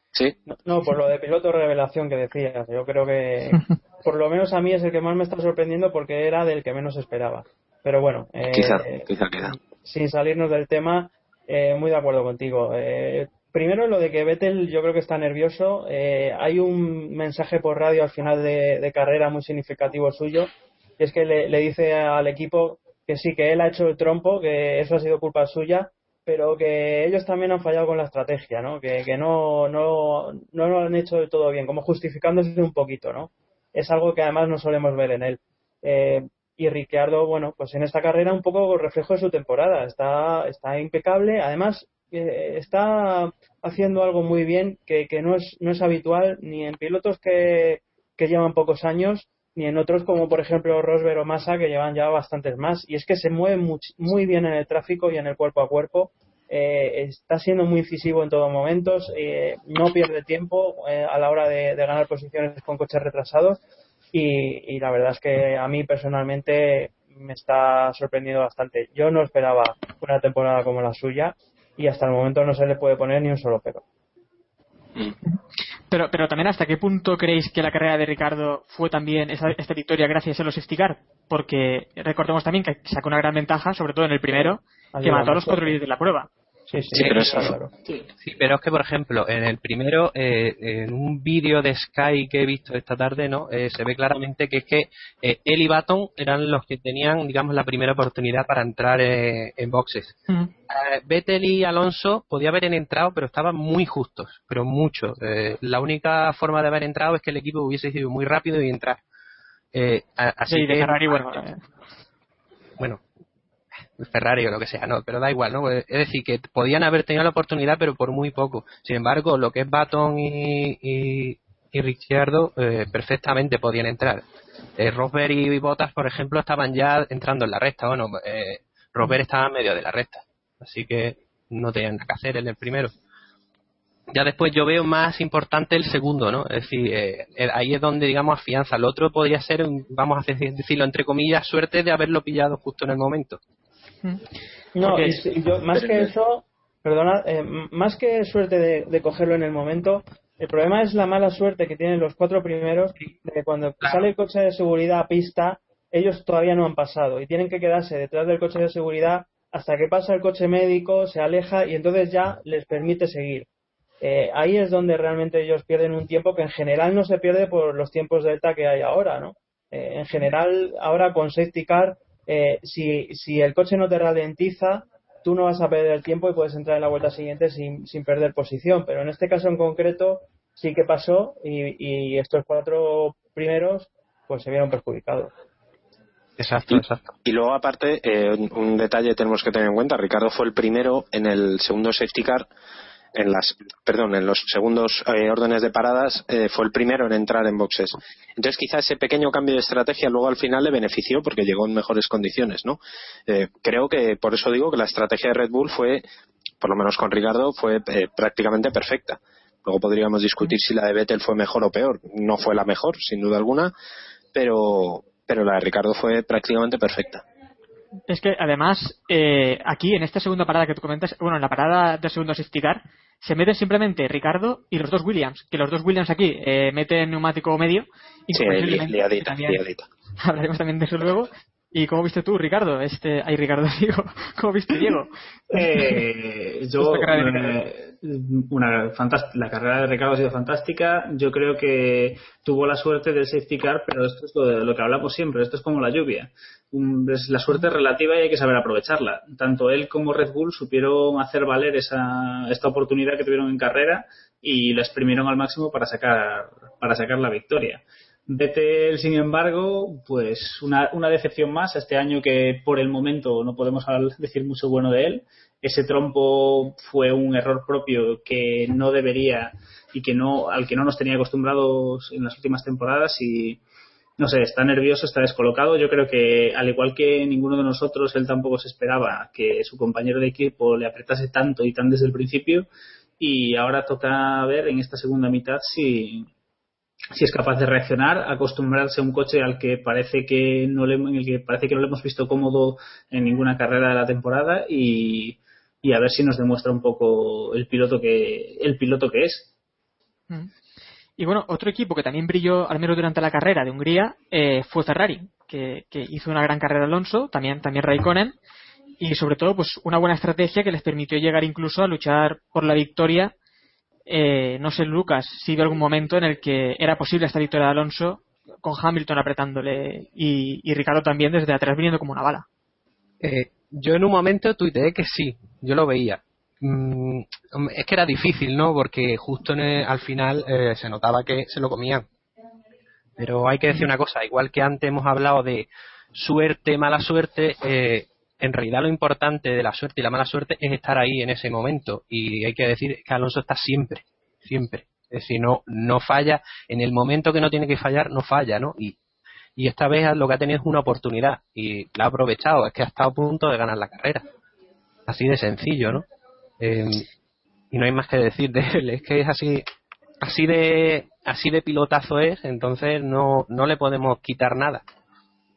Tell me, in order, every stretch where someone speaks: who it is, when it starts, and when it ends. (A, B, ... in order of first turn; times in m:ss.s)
0:00.5-1:03.6 A
0:08.5-0:09.6 B
1:04.1-1:13.8 A
1:15.9-1:26.3 C
1:24.3-1:25.7 A
1:26.7-1:27.7 A
1:26.9-1:27.6 B
1:27.0-1:27.4 D
1:28.2-1:40.2 D
1:40.7-1:49.0 D
1:49.7-1:51.4 D
1:50.5-1:51.6 C
1:54.0-2:04.2 D
2:04.8-2:12.9 D
2:14.1-2:23.4 D
2:24.8-2:43.5 A
2:24.8-2:25.2 C
2:25.8-2:26.1 B
2:44.0-3:05.3 A
3:06.4-3:07.0 D
3:06.7-3:12.5 B
3:13.1-3:26.0 B
3:26.6-3:33.7 B
3:34.3-3:37.2 B
3:38.1-3:49.6 C
3:48.3-3:49.9 B
3:50.2-3:56.0 C
3:55.5-4:33.6 E
3:56.8-3:57.6 C
4:34.2-4:42.7 E
4:43.2-4:46.3 E
4:47.1-4:59.5 E
5:01.2-5:08.4 C
5:09.0-5:13.3 C
5:14.1-5:22.5 C
5:23.2-5:32.0 D
5:33.2-5:49.0 D
5:49.6-5:54.2 D
5:55.1-5:56.1 D
5:56.6-5:57.1 D
5:57.7-5:59.7 D
6:00.2-6:04.8 D